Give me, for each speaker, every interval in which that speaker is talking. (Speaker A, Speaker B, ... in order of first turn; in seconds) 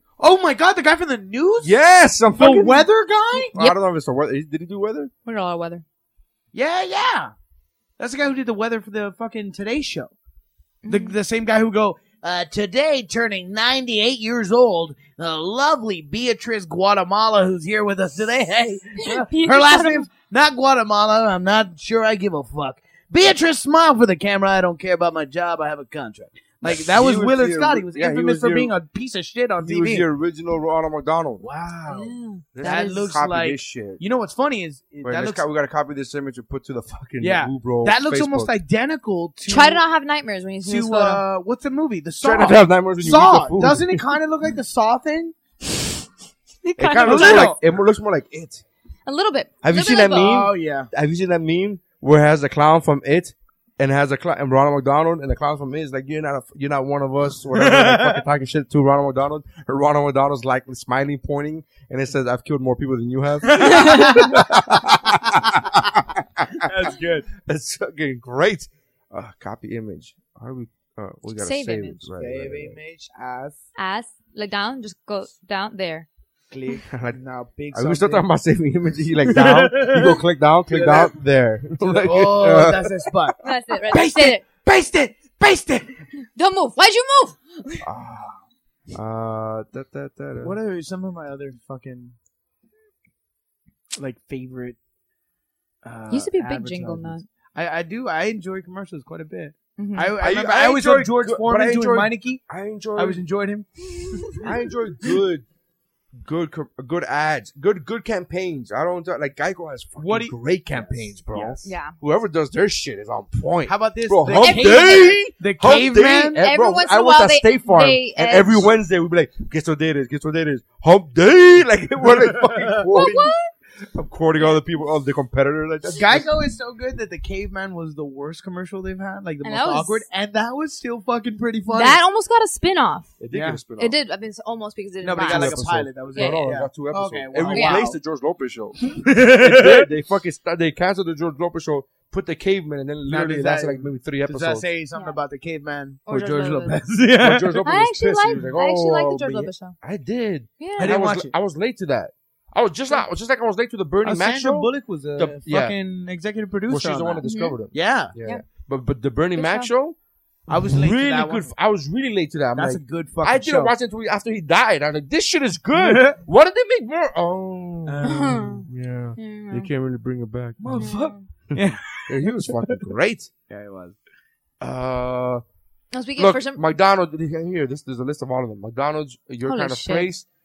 Speaker A: 0.2-1.8, 2.3-3.6, 6.5-7.3, 8.0-10.1, 10.9-30.1, 31.4-35.4, 37.2-39.8, 40.6-45.3, 46.9-47.6, 50.2-50.9, 57.5-58.2, 63.5-64.8, 66.6-67.2, 72.1-73.6, 76.5-78.3, 79.2-80.2, 80.7-81.1, 81.8-85.9, 90.4-92.1, 94.0-94.8, 95.8-102.4, 102.9-104.5, 110.0-111.7, 113.7-116.4, 122.0-122.8, 125.9-132.0, 133.3-133.6, 135.0-138.0, 138.9-139.9, 143.1-147.6, 150.8-151.3, 154.0-158.1, 160.5-161.5, 162.5-163.7, 165.7-166.2, 167.8-168.5, 170.6-172.8, 173.5-173.9
Speaker B: 1.6-2.9, 3.5-5.1, 26.6-28.7, 29.6-31.5, 32.5-34.0, 35.0-38.5, 42.2-44.0, 46.8-48.6, 49.6-72.8, 76.9-77.2, 77.7-83.1, 87.8-88.4, 88.9-90.5, 100.2-103.2, 104.4-105.4, 106.1-123.3, 123.9-126.3, 133.2-133.9, 135.2-144.7, 147.2-155.8, 156.7-160.0, 160.6-173.3, 174.6-175.4, 176.2-180.2
Speaker C: 5.2-5.8, 10.8-11.1, 19.0-20.1, 31.9-33.1, 39.5-41.2, 46.6-47.5, 49.0-50.4, 71.4-72.0, 73.8-76.1, 83.4-84.4, 86.3-87.8, 96.1-97.2, 99.8-100.1, 104.1-104.4, 111.6-111.9, 114.4-115.2, 116.3-118.7, 122.9-123.5, 129.4-130.1, 131.7-133.2, 133.8-135.6, 136.2-136.4, 137.5-137.8, 146.1-146.8, 147.6-149.8, 150.6-150.9, 157.2-157.6, 159.3-159.7, 168.0-168.7, 169.2-169.7, 170.7-171.2, 175.9-176.6, 179.4-180.1